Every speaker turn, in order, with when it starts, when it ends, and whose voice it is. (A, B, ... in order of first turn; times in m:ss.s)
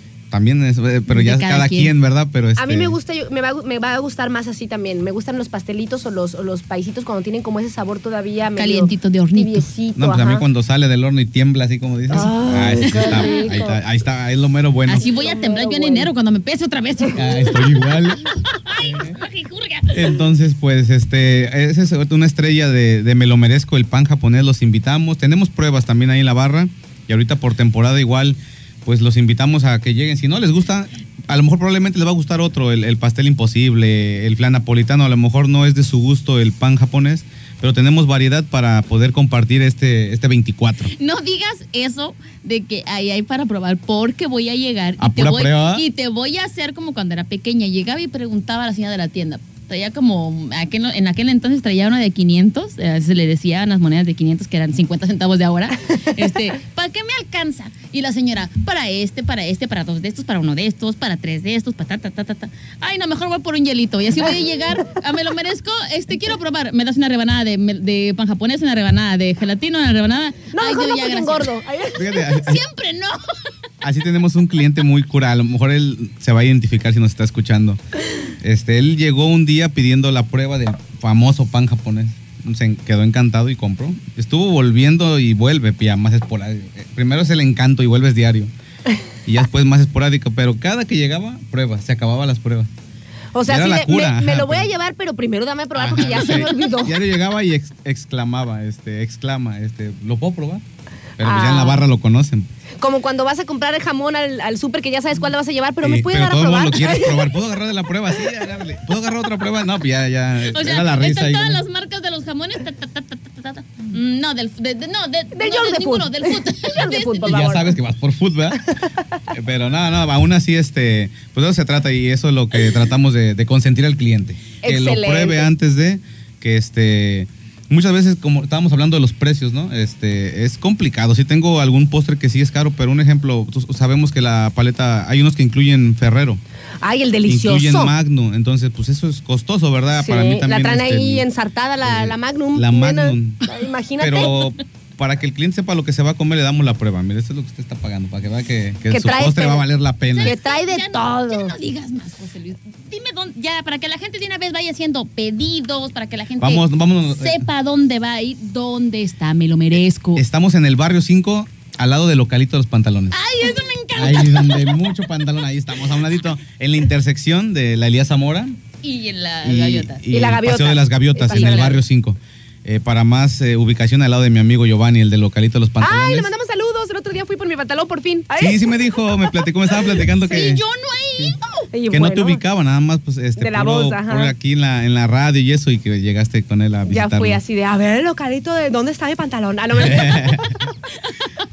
0:00.3-0:03.0 A
0:01.1-0:01.9 B
0:02.6-0:10.4 C
0:08.6-0:09.7 B
0:10.0-0:15.0 A
0:12.1-0:13.8 C
0:12.8-0:13.6 B
0:14.9-0:20.2 B
0:15.0-0:16.1 C
0:17.2-0:18.2 A
0:18.8-0:19.2 A
0:19.9-0:40.9 A
0:41.0-1:11.5 B
0:45.0-0:45.8 A
1:10.5-1:12.1 C
1:12.0-1:12.6 A
1:12.3-1:13.2 B
1:13.8-1:17.8 A
1:18.4-1:28.5 A
1:29.3-1:32.7 A
1:33.3-1:37.0 C
1:33.5-1:34.7 A
1:35.8-1:40.6 A
1:41.2-1:42.5 A
1:41.2-1:41.8 C
1:42.8-1:47.3 C
1:45.8-1:51.6 A
1:50.5-1:57.4 B
1:55.3-1:57.7 C
1:57.2-1:58.6 A
1:58.7-1:59.2 C
1:59.3-2:16.4 A
2:04.6-2:05.5 C
2:16.8-2:17.9 C
2:17.3-2:21.2 A
2:20.0-2:24.4 C
2:21.8-2:23.4 A
2:24.0-2:30.4 A
2:28.9-2:29.6 C
2:30.1-2:40.2 B
2:30.2-2:31.6 C
2:36.4-2:37.5 A
2:40.2-2:43.2 A
2:43.1-2:44.8 B
2:44.0-2:48.6 A
2:48.8-2:50.0 B
2:49.4-2:56.3 A
2:50.1-2:51.8 C
2:51.3-2:51.8 B
2:55.8-2:58.7 C
2:58.4-3:00.6 A
3:00.0-3:01.7 B
3:01.7-3:02.4 C
3:01.9-3:07.4 A
3:03.4-3:04.4 C
3:06.9-3:10.5 C
3:09.8-3:10.7 A